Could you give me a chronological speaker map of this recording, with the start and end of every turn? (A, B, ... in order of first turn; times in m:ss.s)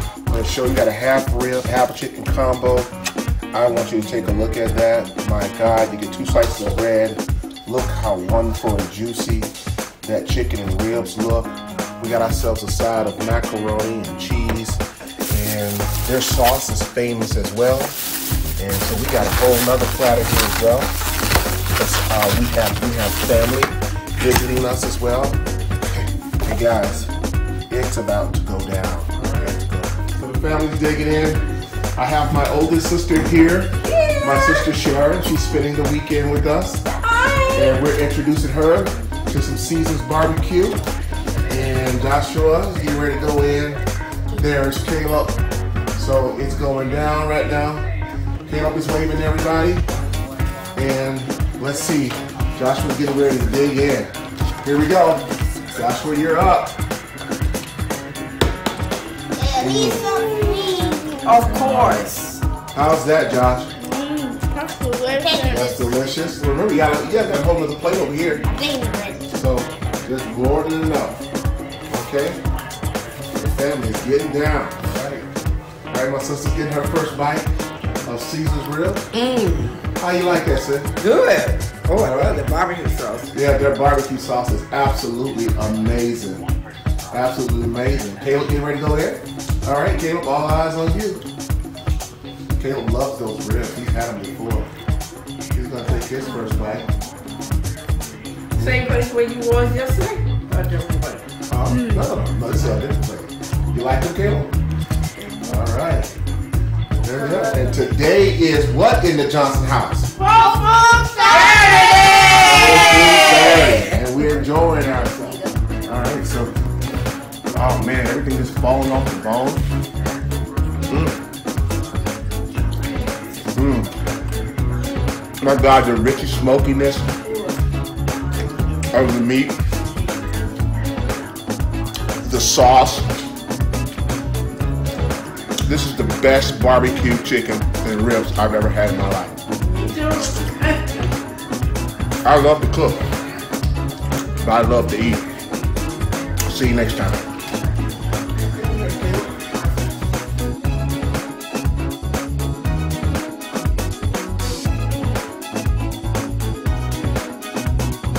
0:00.3-0:02.9 A
0:03.5-0:18.0 A
0:18.6-0:20.9 A
0:21.7-0:27.1 A
0:27.7-0:31.4 A
0:32.0-0:36.8 A
0:33.8-0:34.6 B
0:36.9-0:37.8 B
0:37.5-0:40.8 A
0:41.5-0:43.8 A
0:44.4-0:45.4 A
0:46.0-0:47.8 A
0:48.4-0:49.8 A
0:50.7-0:56.8 A
0:59.4-1:01.5 C
0:59.6-1:00.0 A
1:01.2-1:02.4 B
1:01.4-1:02.1 A
1:02.7-1:03.7 A
1:04.0-1:05.5 B
1:05.1-1:05.9 C
1:05.4-1:08.4 A
1:08.5-1:09.2 C
1:09.3-1:11.2 A
1:11.9-1:12.4 A
1:13.4-1:15.3 A
1:15.9-1:17.5 A
1:18.0-1:19.0 A
1:19.1-1:19.8 B
1:20.0-1:20.9 A
1:21.0-1:23.3 B
1:21.9-1:22.4 A
1:23.3-1:26.4 A
1:27.1-1:31.2 A
1:32.6-1:34.7 A
1:35.5-1:36.9 A
1:38.6-1:38.8 A
1:38.6-1:42.0 B
1:41.5-1:44.5 A
1:45.4-1:46.1 A
1:47.0-1:50.1 A
1:47.3-1:47.7 B
1:50.2-1:52.4 C
1:51.2-1:54.0 B
1:52.4-1:56.5 A
1:57.5-1:59.6 A
2:00.9-2:01.2 A
2:03.5-2:03.9 A
2:05.4-2:07.0 A
2:08.9-2:09.6 A
2:12.2-2:13.1 A
2:15.6-2:19.4 A
2:19.6-2:21.0 B
2:22.2-2:23.0 A
2:24.4-2:25.3 A
2:26.5-2:27.2 A
2:28.5-2:29.2 B